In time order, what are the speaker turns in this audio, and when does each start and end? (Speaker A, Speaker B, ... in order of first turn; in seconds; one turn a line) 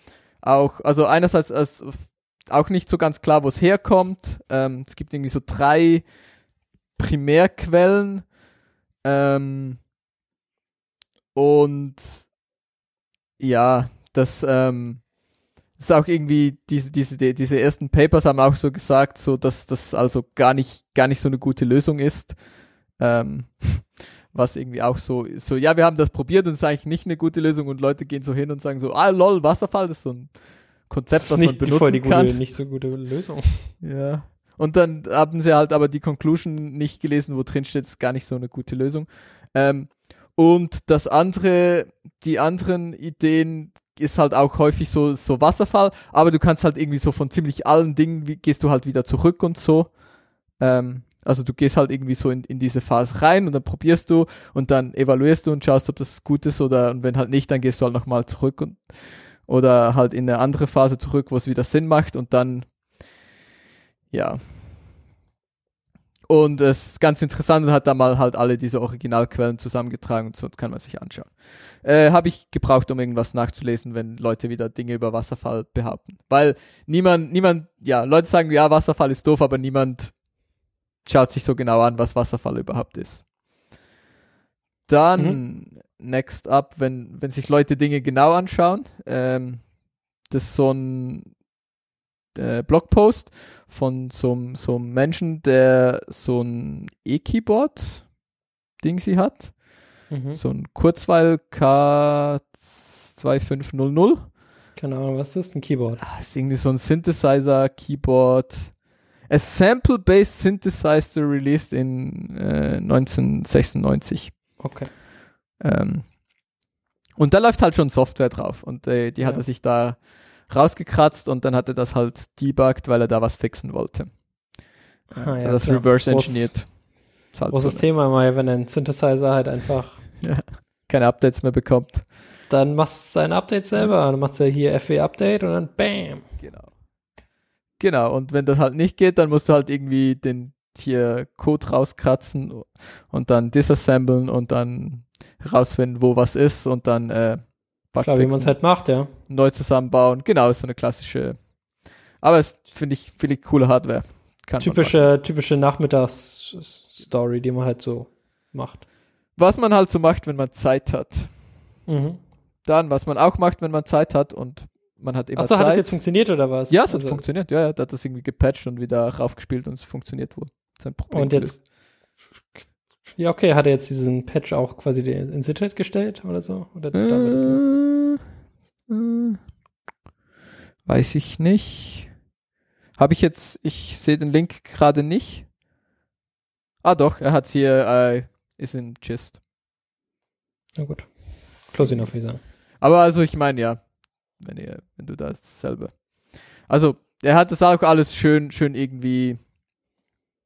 Speaker A: 0.4-6.0
Speaker A: 7.0-8.2
Speaker A: 9.0-9.8
Speaker A: 11.3-12.2
Speaker A: 13.4-15.0
Speaker A: 15.8-22.4
Speaker A: 23.0-30.3
Speaker A: 30.9-32.4
Speaker B: 31.2-33.7
Speaker A: 33.8-49.9
Speaker A: 50.6-62.7
Speaker A: 64.1-64.4
Speaker A: 66.3-80.1
Speaker A: 81.0-83.2
Speaker A: 84.9-89.6
Speaker A: 90.3-91.3
Speaker A: 92.3-98.0
Speaker A: 98.8-99.5
Speaker B: 100.1-100.4
Speaker A: 100.3-104.2
Speaker B: 104.8-106.0
Speaker A: 106.0-108.7
Speaker A: 109.3-114.3
Speaker B: 114.6-114.9
Speaker A: 115.6-116.0
Speaker A: 117.2-124.1
Speaker B: 125.1-126.5
Speaker A: 125.1-126.7
Speaker A: 127.3-127.8
Speaker B: 127.5-130.0
Speaker A: 130.2-132.1
Speaker B: 132.5-136.2
Speaker A: 136.4-136.7
Speaker A: 137.8-148.5
Speaker B: 148.0-149.1
Speaker A: 149.3-151.4
Speaker A: 152.2-155.0
Speaker B: 154.6-158.8
Speaker A: 159.4-161.3
Speaker B: 161.9-162.2
Speaker A: 162.7-165.9
Speaker B: 165.3-167.3
Speaker A: 166.7-171.6
Speaker B: 171.1-171.6
Speaker B: 172.6-177.6
Speaker A: 176.9-178.2
Speaker A: 178.9-179.4
Speaker A: 180.9-182.1
Speaker A: 183.0-185.4
Speaker A: 186.8-189.4
Speaker B: 190.8-191.1
Speaker B: 191.7-192.4
Speaker A: 191.8-192.0
Speaker A: 192.8-193.8
Speaker A: 194.4-196.0
Speaker A: 196.7-199.4